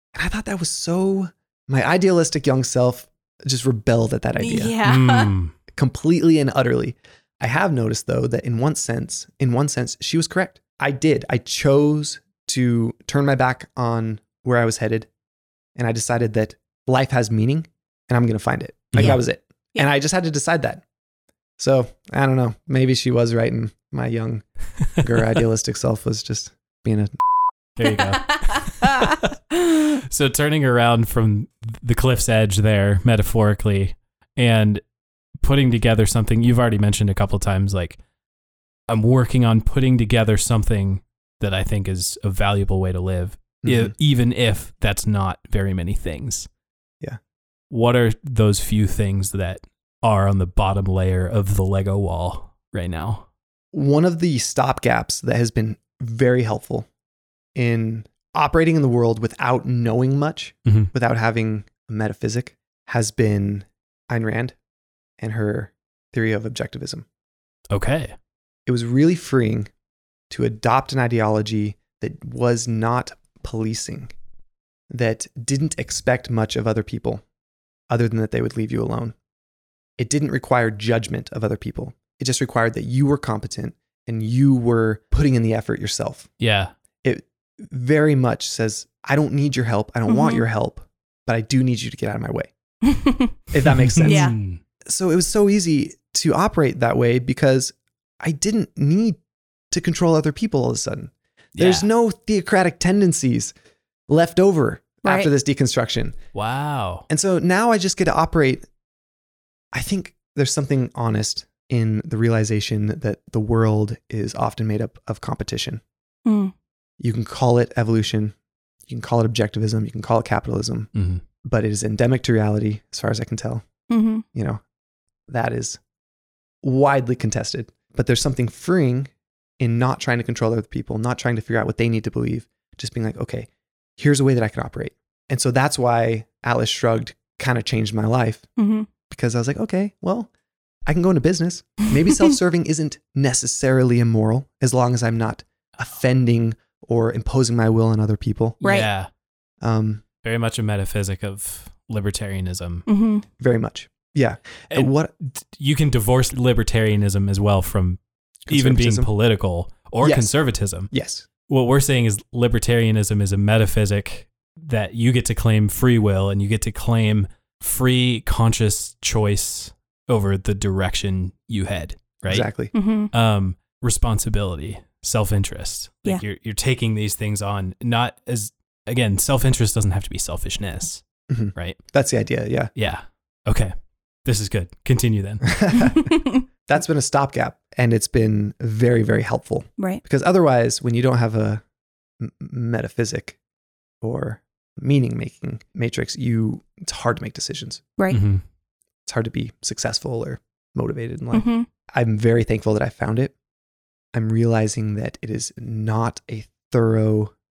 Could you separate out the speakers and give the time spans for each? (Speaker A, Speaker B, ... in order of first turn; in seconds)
Speaker A: 0.1-4.8, 5.7-15.1, 15.8-20.8, 21.6-24.4, 25.0-27.2, 43.6-43.9, 53.7-56.9, 57.5-64.5, 65.2-67.0, 68.7-69.7, 70.3-74.1, 74.9-77.2, 77.9-79.2, 80.0-86.3, 87.0-92.5, 93.5-94.3, 94.8-99.2, 99.7-103.5, 104.1-106.2, 107.1-108.7, 109.7-115.8, 117.0-118.3, 118.9-120.9, 121.4-123.6, 124.3-124.6, 125.3-125.8, 126.6-138.4, 139.1-140.3, 140.8-148.6, 149.6-150.0, 153.4-155.1, 158.4-159.1, 160.0-160.3, 160.9-161.2, 172.2-172.7, 181.3-182.7, 185.4-186.1, 186.7-191.6, 192.2-193.4, 194.0-197.8, 199.1-203.3, 204.1-207.3
Speaker B: 4.4-5.3, 28.1-29.0, 90.1-90.4, 92.8-93.3, 94.0-94.4, 105.0-105.3, 116.2-116.5, 123.9-124.2, 138.6-138.9, 148.6-148.9, 152.9-153.2, 172.7-173.1, 185.8-186.4, 201.3-201.7
Speaker C: 4.8-5.5, 18.9-19.2, 27.8-34.8, 35.4-38.0, 38.9-46.5, 47.7-53.2, 67.7-68.1, 86.4-86.7, 93.6-94.6, 101.5-101.9, 106.3-107.0, 120.9-121.2, 148.6-149.1, 150.2-152.8, 154.7-160.9, 161.5-172.5, 173.1-181.8, 182.7-183.7, 184.2-185.5, 198.1-198.4